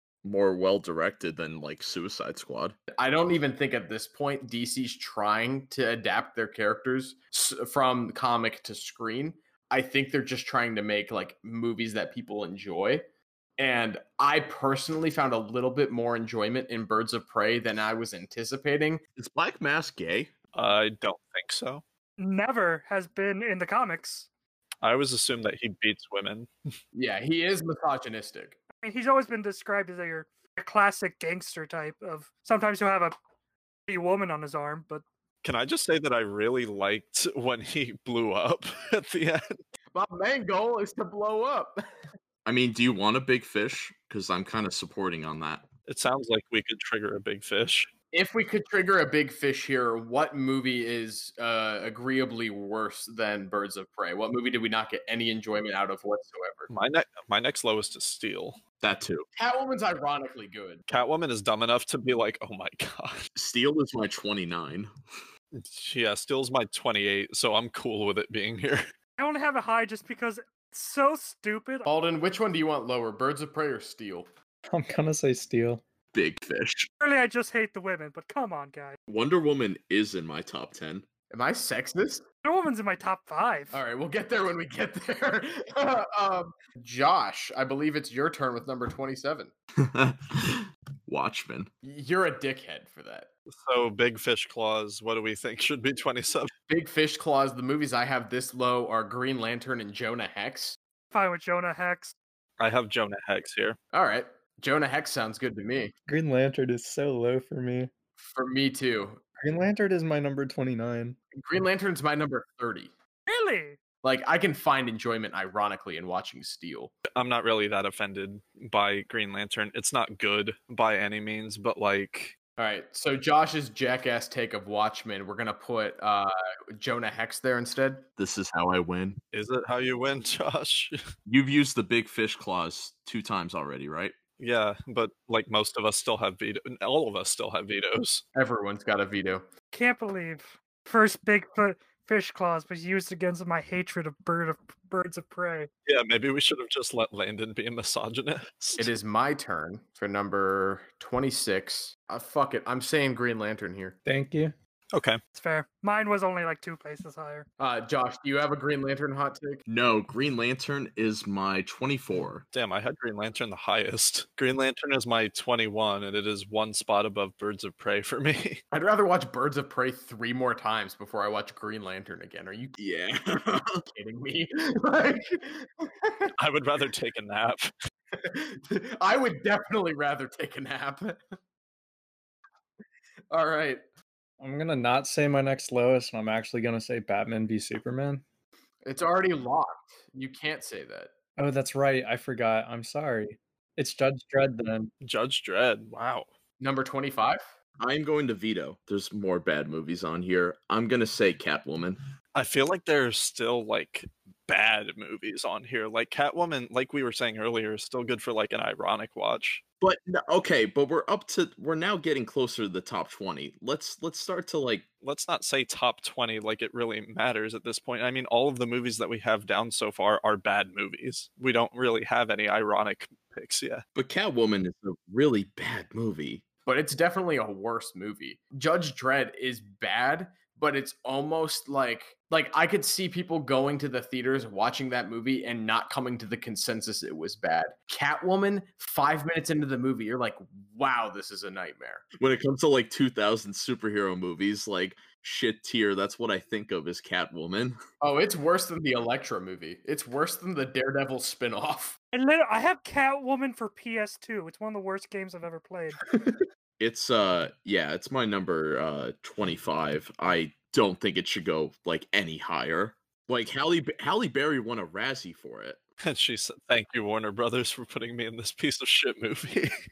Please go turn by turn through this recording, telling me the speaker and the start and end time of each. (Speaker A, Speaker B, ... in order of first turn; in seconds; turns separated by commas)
Speaker A: 0.2-2.8, Speaker B: 2.9-13.1, Speaker B: 13.6-19.0, Speaker A: 19.2-20.3, Speaker C: 20.5-21.8, Speaker D: 22.2-24.3, Speaker C: 24.8-26.5, Speaker B: 26.9-28.6, Speaker D: 28.8-33.1, Speaker D: 33.9-35.0, Speaker C: 35.4-39.6, Speaker B: 39.9-41.8, Speaker A: 42.5-45.7, Speaker C: 45.9-47.9, Speaker B: 48.1-56.7, Speaker C: 56.7-58.6, Speaker A: 58.8-59.3, Speaker B: 59.4-60.8, Speaker C: 60.9-63.2, Speaker A: 63.4-64.9, Speaker C: 65.5-68.9, Speaker D: 69.2-71.9, Speaker B: 71.8-74.3, Speaker E: 74.7-75.8, Speaker A: 76.1-76.9, Speaker D: 77.0-79.0, Speaker A: 79.1-81.1, Speaker B: 81.3-82.2, Speaker D: 82.4-83.8, Speaker B: 83.7-89.5, Speaker A: 89.8-91.7, Speaker B: 91.8-93.3, Speaker C: 93.6-96.5, Speaker B: 96.7-100.8, Speaker D: 101.1-102.1, Speaker C: 102.6-103.8, Speaker B: 103.9-105.9, Speaker E: 106.1-107.9, Speaker B: 108.2-109.2, Speaker E: 109.4-111.2, Speaker B: 111.3-112.9, Speaker D: 113.3-113.8, Speaker B: 114.0-116.9, Speaker C: 117.1-122.3, Speaker B: 122.6-128.1, Speaker A: 128.2-129.2, Speaker C: 129.3-131.0, Speaker A: 131.3-134.2, Speaker C: 134.4-138.2, Speaker B: 138.3-139.5, Speaker D: 139.7-145.7, Speaker C: 145.9-148.9, Speaker B: 148.8-154.0, Speaker E: 154.1-154.5, Speaker C: 154.9-155.2, Speaker D: 155.3-157.5, Speaker B: 157.6-159.6, Speaker A: 159.7-162.4, Speaker C: 162.5-168.6, Speaker B: 168.7-172.8, Speaker A: 172.8-173.8, Speaker B: 173.9-176.3, Speaker C: 176.4-177.7, Speaker B: 178.2-181.2, Speaker B: 183.3-183.8, Speaker E: 184.4-188.2, Speaker B: 188.8-191.1, Speaker E: 191.4-194.9, Speaker C: 195.0-196.3, Speaker B: 196.6-197.4, Speaker A: 197.8-202.0, Speaker C: 202.3-209.6, Speaker A: 209.8-214.9, Speaker C: 215.0-223.8, Speaker A: 223.9-226.4, Speaker B: 226.7-242.0, Speaker A: 242.2-247.8, Speaker B: 248.0-252.0, Speaker D: 252.1-256.0, Speaker A: 256.8-265.8, Speaker C: 266.0-269.7